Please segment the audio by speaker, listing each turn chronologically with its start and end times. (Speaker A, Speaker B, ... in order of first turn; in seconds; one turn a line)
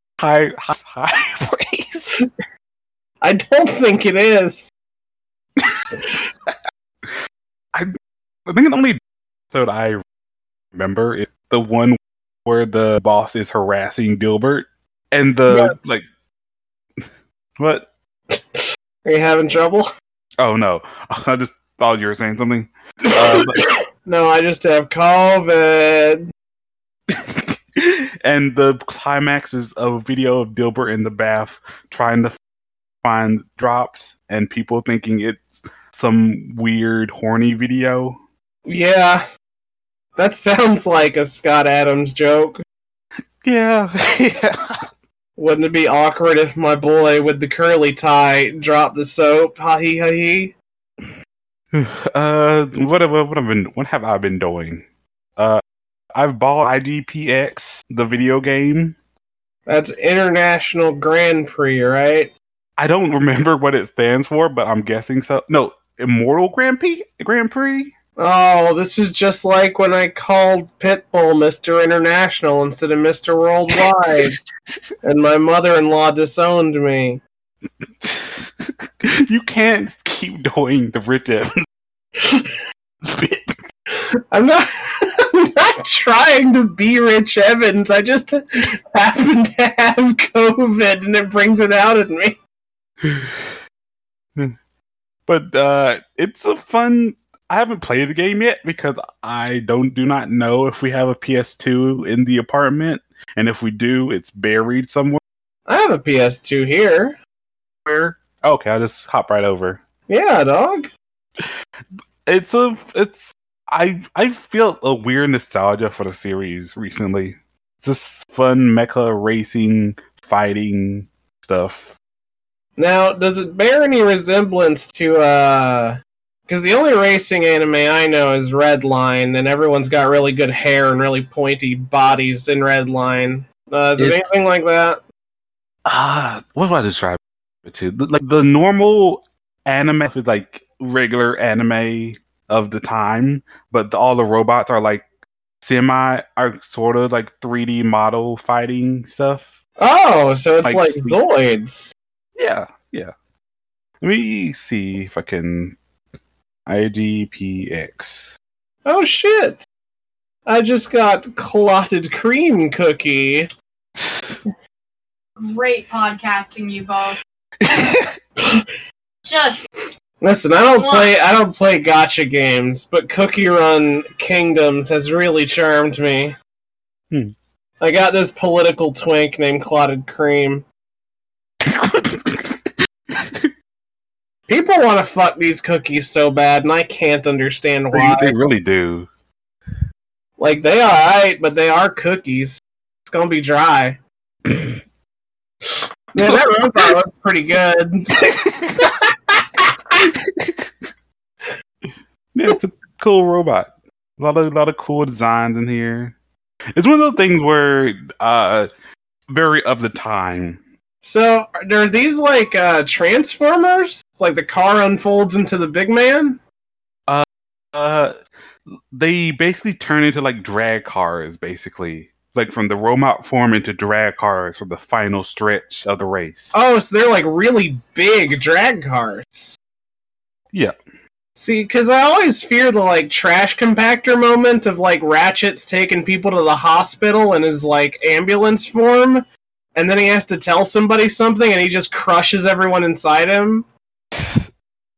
Speaker A: 0.2-2.2
Speaker B: 3.2-4.7
Speaker A: 8.5-9.0
Speaker A: 9.5-10.0
Speaker A: 10.7-16.1
Speaker B: 15.5-15.8
Speaker A: 17.6-17.9
Speaker B: 19.1-19.9
Speaker A: 20.4-23.7
Speaker B: 24.0-26.2
Speaker A: 27.1-32.4
Speaker A: 33.0-38.2
Speaker B: 38.7-39.2
Speaker B: 40.2-42.6
Speaker A: 43.4-44.8
Speaker B: 45.4-50.5
Speaker A: 51.7-54.8
Speaker A: 56.1-59.0
Speaker B: 59.7-62.3
Speaker A: 62.8-67.9
Speaker B: 68.2-74.4
Speaker B: 75.0-77.2
Speaker A: 78.0-81.6
Speaker B: 82.2-82.6
Speaker A: 83.0-83.6
Speaker B: 84.3-92.4
Speaker A: 93.0-93.5
Speaker A: 95.3-105.2
Speaker B: 105.7-107.2
Speaker A: 107.9-109.8
Speaker B: 110.1-110.9
Speaker A: 112.3-122.0
Speaker B: 122.8-135.0
Speaker A: 134.0-134.2
Speaker A: 135.9-145.1
Speaker A: 145.6-149.5
Speaker B: 149.8-151.9
Speaker A: 150.6-151.2
Speaker A: 152.4-153.1
Speaker A: 154.0-155.8
Speaker A: 156.7-158.3
Speaker B: 158.8-159.6
Speaker B: 160.5-163.5
Speaker A: 164.0-164.3
Speaker C: 165.4-167.2
Speaker A: 167.6-168.1
Speaker C: 169.2-169.7
Speaker B: 170.2-176.4
Speaker C: 170.8-171.1
Speaker B: 177.8-180.7
Speaker A: 181.6-183.5
Speaker B: 184.5-188.3
Speaker A: 187.9-189.1
Speaker B: 190.4-194.0
Speaker A: 194.5-194.8
Speaker B: 195.7-198.1
Speaker A: 198.2-198.9
Speaker B: 198.8-199.6
Speaker A: 200.0-200.7
Speaker A: 202.3-206.2
Speaker A: 206.8-208.7
Speaker A: 209.3-210.6
Speaker B: 211.0-216.4
Speaker A: 217.1-218.2
Speaker A: 218.9-226.5
Speaker B: 226.5-229.6
Speaker B: 231.4-243.7
Speaker A: 244.2-244.5